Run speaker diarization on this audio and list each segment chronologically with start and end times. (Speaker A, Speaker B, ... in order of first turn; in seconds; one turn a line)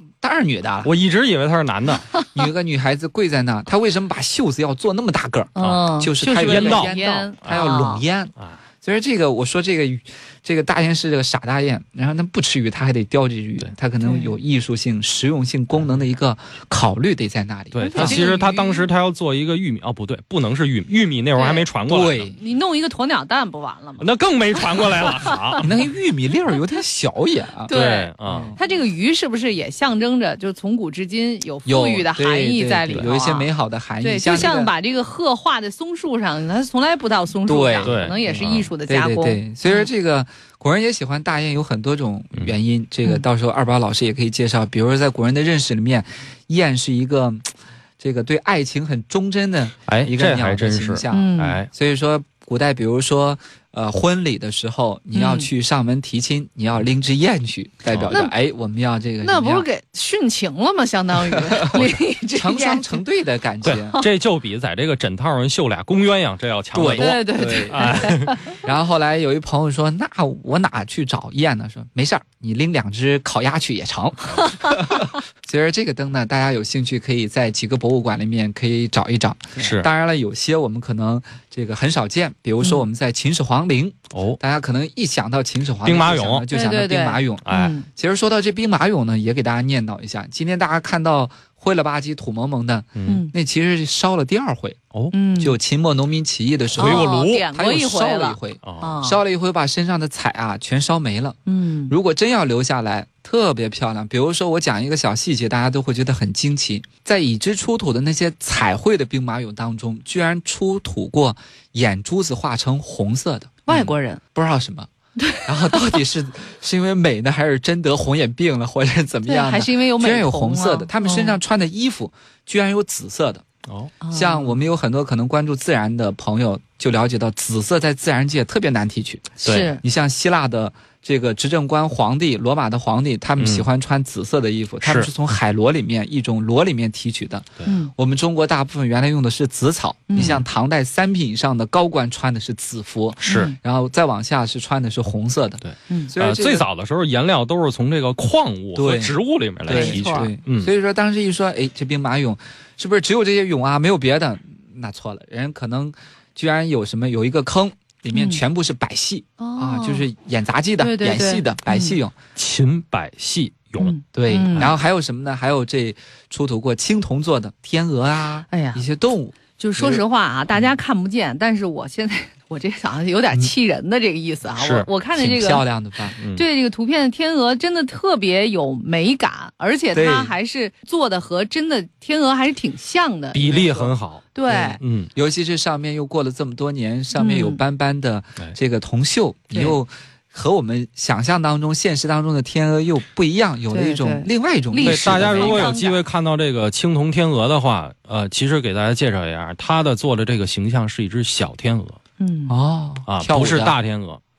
Speaker A: 0.2-0.9
Speaker B: 0.8-2.1
Speaker A: 2.3-18.3
Speaker C: 5.5-8.0
Speaker B: 5.6-7.7
Speaker C: 14.0-14.3
Speaker B: 17.7-22.3
Speaker C: 17.8-18.9
Speaker C: 21.4-21.6
Speaker A: 21.9-22.4
Speaker C: 22.4-24.1
Speaker B: 24.0-25.7
Speaker C: 24.6-25.3
Speaker A: 25.6-27.7
Speaker C: 27.7-33.5
Speaker B: 27.7-28.6
Speaker A: 28.2-28.6
Speaker A: 31.7-34.7
Speaker C: 34.0-39.9
Speaker A: 37.5-59.7
Speaker B: 37.8-38.7
Speaker B: 49.9-51.7
Speaker C: 51.1-51.6
Speaker C: 55.1-55.5
Speaker B: 57.9-58.2
Speaker C: 59.2-63.0
Speaker A: 61.3-64.0
Speaker B: 63.6-68.4
Speaker A: 66.7-94.8
Speaker C: 66.9-68.5
Speaker B: 79.6-79.9
Speaker B: 84.1-84.4
Speaker B: 85.8-86.5
Speaker C: 86.5-87.9
Speaker B: 87.5-87.7
Speaker B: 93.0-93.2
Speaker C: 93.1-93.3
Speaker C: 95.1-95.6
Speaker A: 95.4-123.5
Speaker C: 96.8-99.2
Speaker B: 96.8-97.5
Speaker B: 98.6-98.9
Speaker C: 101.5-101.9
Speaker C: 113.7-114.2
Speaker C: 115.2-115.9
Speaker C: 119.3-121.4
Speaker B: 123.7-123.9
Speaker C: 124.0-124.6
Speaker A: 124.1-146.7
Speaker C: 129.4-129.8
Speaker B: 129.4-129.7
Speaker B: 133.4-133.7
Speaker B: 134.8-135.1
Speaker C: 137.7-137.9
Speaker C: 140.1-140.4
Speaker B: 143.2-143.5
Speaker C: 143.3-143.6
Speaker B: 145.6-150.7
Speaker A: 148.8-162.2
Speaker C: 149.7-150.3
Speaker C: 158.1-158.4
Speaker C: 159.4-160.1
Speaker C: 160.8-162.0
Speaker B: 162.4-164.0
Speaker C: 163.8-164.7
Speaker A: 164.1-170.0
Speaker C: 168.5-168.8
Speaker C: 169.6-175.7
Speaker B: 174.6-174.9
Speaker A: 175.2-176.2
Speaker B: 176.2-176.4
Speaker C: 176.3-184.8
Speaker A: 179.9-180.3
Speaker B: 183.3-184.3
Speaker A: 184.5-195.7
Speaker B: 184.8-185.1
Speaker C: 187.2-187.6
Speaker C: 189.5-189.8
Speaker C: 193.7-196.0
Speaker B: 194.8-202.0
Speaker C: 202.2-202.6
Speaker A: 202.5-203.8
Speaker B: 203.1-204.2